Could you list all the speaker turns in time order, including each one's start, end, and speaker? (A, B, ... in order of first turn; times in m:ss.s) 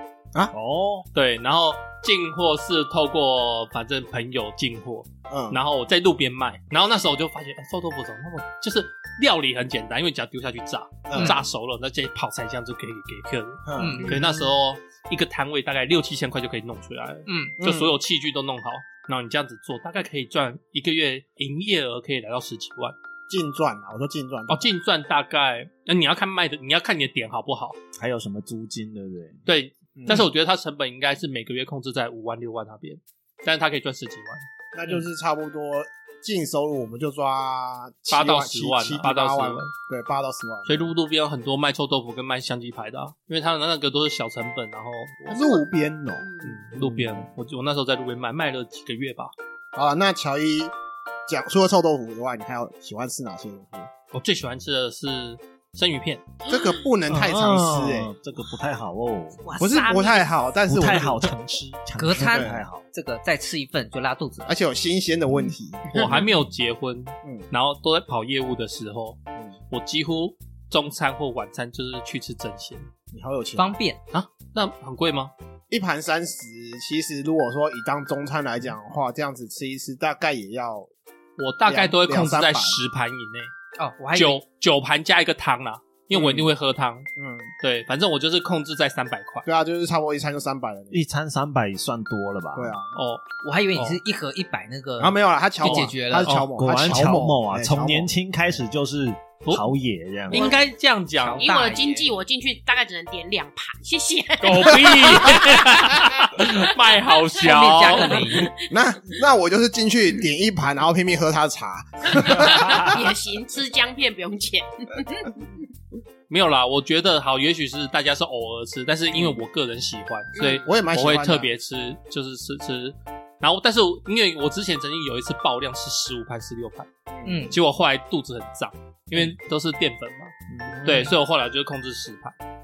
0:00.5-0:01.1 A
0:01.1-0:23.0 B
0:05.3-0:05.6 C
0:11.1-0:11.4 C
0:13.7-0:14.0 C
0:13.8-0:14.3 D
0:14.0-0:14.5 E
0:17.3-0:17.6 D
0:17.6-0:17.9 C
0:23.3-0:24.7 C
0:24.5-0:27.8 B
0:28.0-0:29.4 A
0:29.5-0:35.0 B
0:30.0-0:30.3 C
0:34.7-0:40.9 C
0:38.1-0:39.7 B
0:40.7-0:45.3 B
0:45.3-0:46.6 E
0:45.3-0:46.3 C
0:46.4-0:49.3 B
0:49.8-0:50.7 C
0:51.3-0:53.9 C
0:54.1-0:56.2 B
0:56.4-0:56.9 E
0:56.5-0:58.1 C
0:57.1-0:59.4 A
0:59.4-1:00.3 E
0:59.6-1:01.4 C
1:00.6-1:02.8 A
1:02.0-1:04.5 D
1:02.2-1:02.6 C
1:04.5-1:05.9 C
1:05.9-1:09.2 B
1:06.0-1:06.4 A
1:09.7-1:12.9 B
1:13.1-1:13.8 C
1:13.6-1:14.0 D
1:14.1-1:15.3 B
1:15.7-1:20.9 C
1:21.4-1:23.5 B
1:21.6-1:22.8 C
1:23.8-1:24.4 D
1:24.1-1:27.1 B
1:26.1-1:26.5 C
1:27.2-1:27.5 C
1:27.6-1:29.4 B
1:29.4-1:31.0 C
1:30.9-1:32.8 A
1:32.5-1:32.9 C
1:32.9-1:33.2 B
1:33.4-1:36.4 D
1:33.8-1:34.0 B
1:35.0-1:38.1 C
1:35.6-1:36.5 B
1:36.6-1:40.5 A
1:39.4-1:39.7 B
1:40.3-1:41.4 B
1:40.3-1:40.6 E
1:41.2-1:42.1 D
1:41.4-1:46.6 E
1:44.4-1:48.5 B
1:47.4-1:48.5 D
1:48.0-1:48.5 E
1:48.7-1:53.0 C
1:52.1-1:55.5 E
1:56.3-2:06.9 B
2:00.4-2:00.7 E
2:00.6-2:01.5 C
2:07.1-2:07.5 C
2:07.2-2:07.6 D
2:07.5-2:10.3 B
2:10.5-2:11.1 A
2:10.8-2:12.4 B